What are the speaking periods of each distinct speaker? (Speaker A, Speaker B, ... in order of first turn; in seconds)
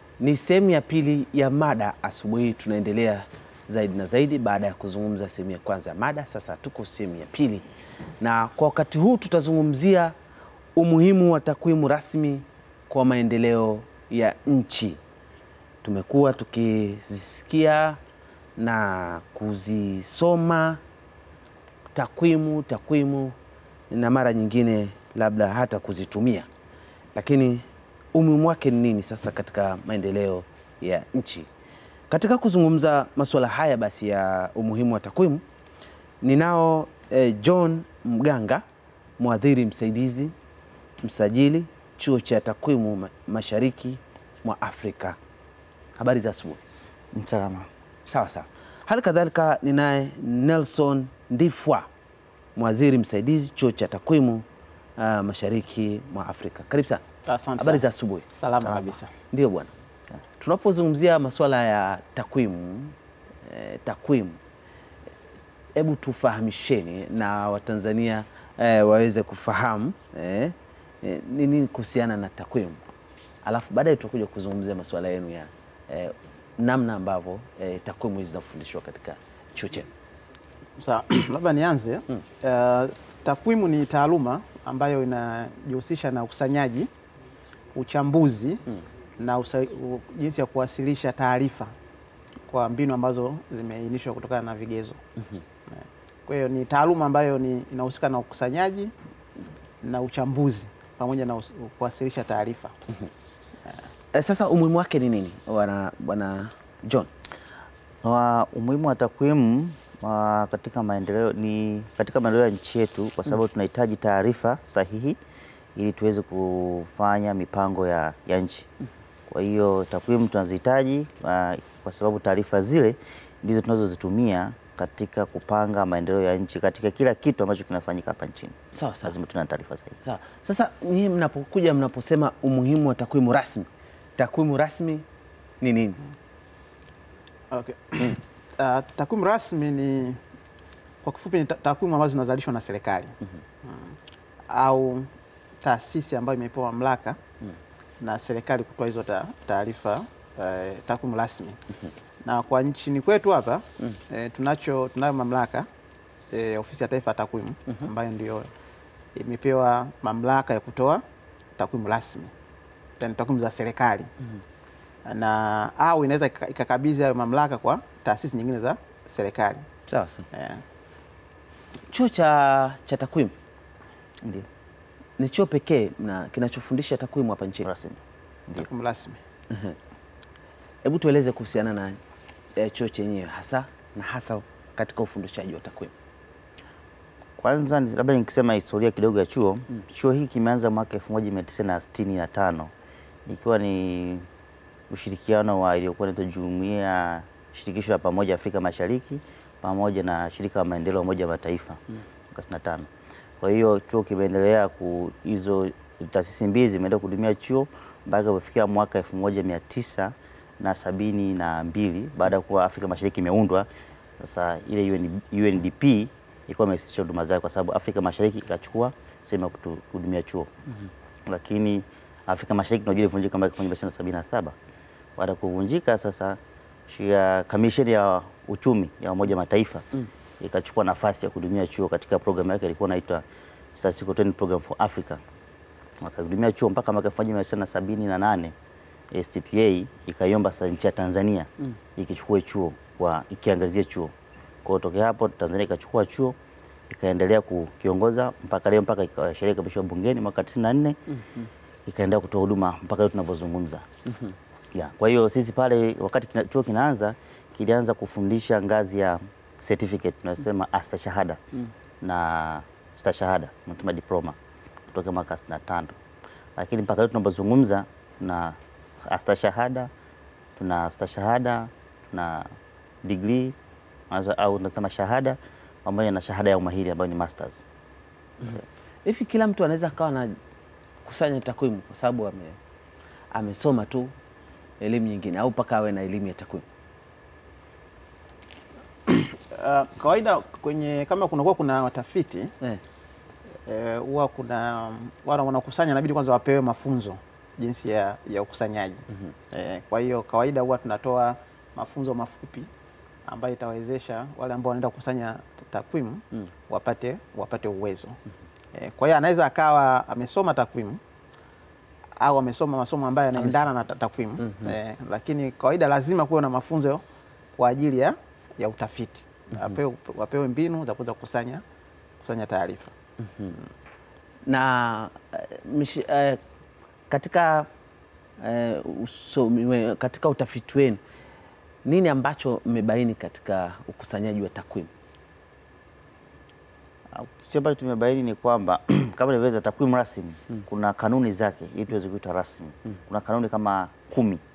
Speaker A: 0.2-7.6, 8.2-10.2, 10.8-15.0, 15.8-18.0, 18.6-20.8, 21.9-23.4, 23.9-26.5, 27.1-31.5, 32.1-35.4, 36.2-38.6, 39.2-40.3, 41.0-45.2, 46.0-46.6, 48.1-51.9, 52.5-54.4, 55.0-57.0, 57.6-59.7, 60.4-64.4, 65.8-72.8, 73.4-79.9, 104.1-107.1, 128.7-129.1, 130.0-135.0, 135.6-136.0, 169.9-170.3, 171.9-173.3, 175.2-177.7, 179.5-179.8, 180.8-182.0, 182.6-185.9, 251.2-251.5, 254.1-254.3, 278.4-280.4, 281.0-282.6, 283.3-284.1, 284.8-286.6, 313.4-313.6, 314.4-314.7, 323.2-323.6, 324.5-326.4, 327.1-327.7, 328.4-331.0, 331.8-334.9
Speaker B: 47.1-47.7, 108.0-115.2, 115.7-118.7, 119.3-130.0, 177.6-178.7, 187.4-192.7, 193.2-194.3, 194.9-202.9, 203.4-213.7, 214.2-220.5, 221.3-224.6, 225.2-229.8, 230.4-235.2, 236.0-238.5, 239.1-244.1, 244.6-246.4, 246.9-251.0, 251.8-253.8, 254.7-261.4, 262.0-264.4, 264.9-266.0, 266.6-269.9, 270.6-272.5, 273.0-273.6, 274.1-277.6, 337.1-344.4
Speaker C: 57.2-59.1, 80.8-86.9, 87.7-88.6, 89.2-91.7, 92.5-95.0, 96.2-98.9, 99.8-102.8, 137.5-140.2, 141.0-143.9, 144.5-145.1, 145.6-147.2, 148.0-151.6, 152.2-155.7, 156.3-158.5, 159.1-161.0, 161.6-162.3, 163.0-164.1, 165.0-169.7, 170.3-170.6, 178.6-179.2, 289.1-292.5, 293.6-302.7, 303.2-308.2, 308.7-311.0, 312.2-317.0, 317.5-321.6, 322.2-322.9